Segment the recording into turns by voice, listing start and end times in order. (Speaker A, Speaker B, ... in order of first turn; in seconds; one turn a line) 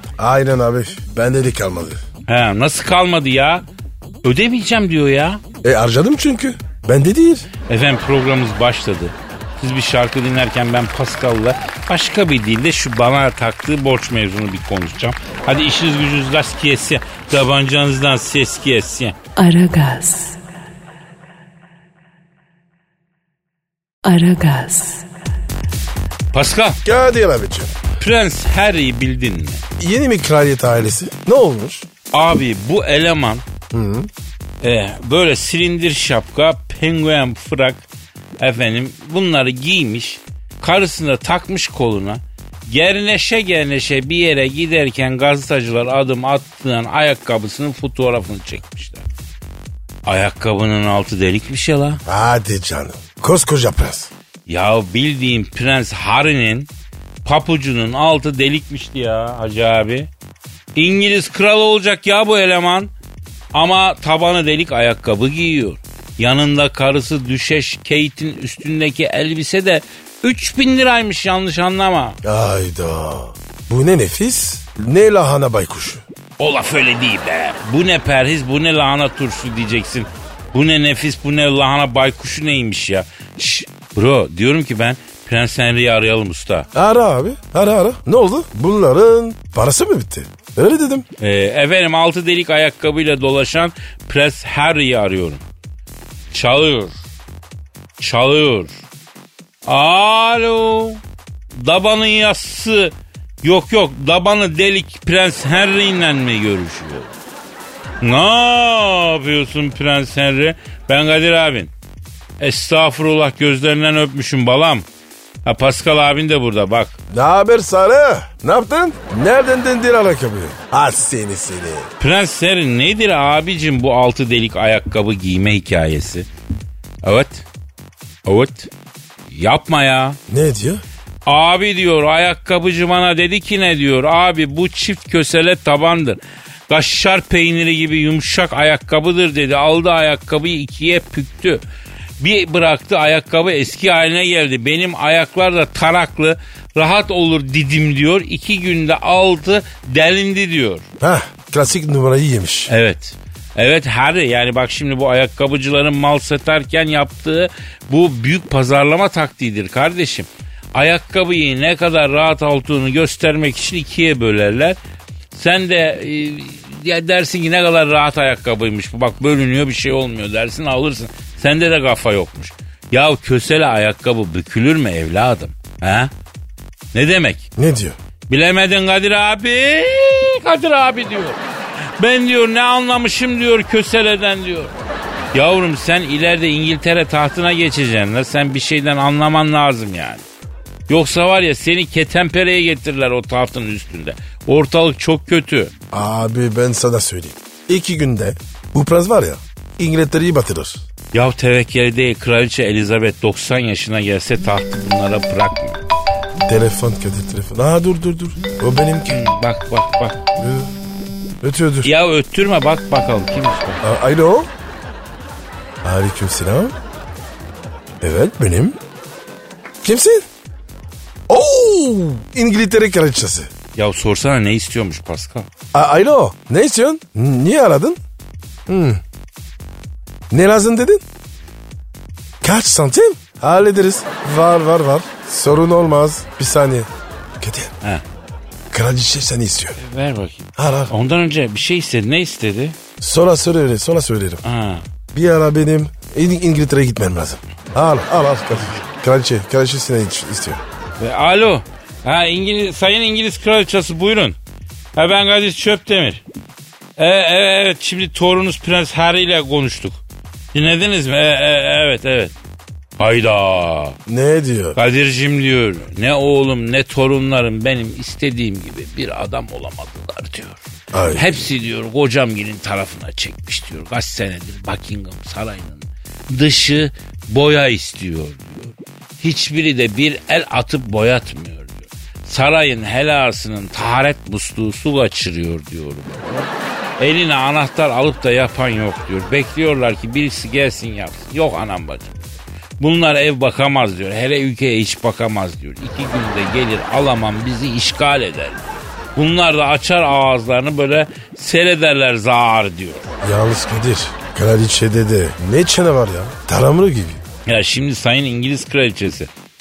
Speaker A: 0.2-2.0
Speaker B: 2.3-3.6
Speaker B: 4.2-5.4
Speaker A: 5.6-7.5
Speaker B: 7.7-19.1
Speaker C: 19.4-20.4
Speaker C: 24.0-25.1
Speaker B: 26.3-26.8
Speaker A: 26.8-27.8
Speaker B: 28.0-29.6
Speaker A: 29.8-31.9
Speaker B: 32.1-33.4
Speaker A: 33.7-34.1
Speaker B: 34.6-37.8
Speaker B: 38.4-49.0
Speaker B: 50.0-52.0
Speaker A: 52.0-54.1
Speaker B: 54.5-56.7
Speaker B: 57.2-60.1
Speaker B: 60.8-62.9
Speaker B: 63.5-72.2
Speaker A: 72.2-76.0
Speaker B: 76.4-86.7
Speaker A: 86.7-91.0
Speaker B: 91.2-95.4
Speaker B: 96.3-96.9
Speaker B: 98.0-98.8
Speaker B: 99.6-101.0
Speaker B: 101.5-107.1
Speaker B: 108.0-111.7
Speaker B: 112.4-114.8
Speaker B: 115.4-116.9
Speaker A: 117.1-121.9
Speaker B: 122.0-126.3
Speaker B: 127.0-127.5
Speaker B: 128.2-128.7
Speaker B: 129.3-130.2
Speaker A: 130.3-130.8
Speaker B: 131.2-141.6
Speaker B: 142.2-150.8
Speaker A: 151.0-152.7
Speaker B: 152.7-164.8
Speaker B: 165.3-176.1
Speaker B: 176.9-177.4
Speaker A: 177.6-177.9
Speaker B: 178.3-181.4
Speaker B: 182.0-184.7
Speaker B: 185.3-190.2
Speaker B: 190.9-195.7
Speaker A: 195.9-200.8
Speaker B: 201.1-205.8
Speaker A: 206.4-209.2
Speaker B: 209.1-210.2
Speaker A: 210.4-210.7
Speaker A: 211.4-211.9
Speaker B: 211.8-213.8
Speaker A: 213.8-214.5
Speaker A: 215.8-216.8
Speaker A: 218.0-218.8
Speaker A: 219.8-220.2
Speaker A: 221.3-223.5
Speaker B: 223.8-225.5
Speaker A: 225.7-228.0
Speaker A: 228.7-229.0
Speaker A: 230.3-231.0
Speaker A: 232.4-237.7
Speaker A: 238.7-239.8
Speaker B: 239.8-242.8
Speaker A: 240.6-240.9
Speaker A: 243.0-244.4
Speaker B: 244.4-244.8
Speaker A: 245.1-250.6
Speaker B: 251.0-254.4
Speaker B: 254.9-256.2
Speaker B: 257.0-260.0
Speaker B: 260.5-262.3
Speaker B: 263.0-264.0
Speaker A: 264.1-264.8
Speaker B: 264.8-270.6
Speaker A: 270.9-271.5
Speaker B: 271.1-292.3
Speaker B: 292.8-298.6
Speaker B: 299.1-303.1
Speaker A: 303.2-307.2
Speaker B: 307.4-309.3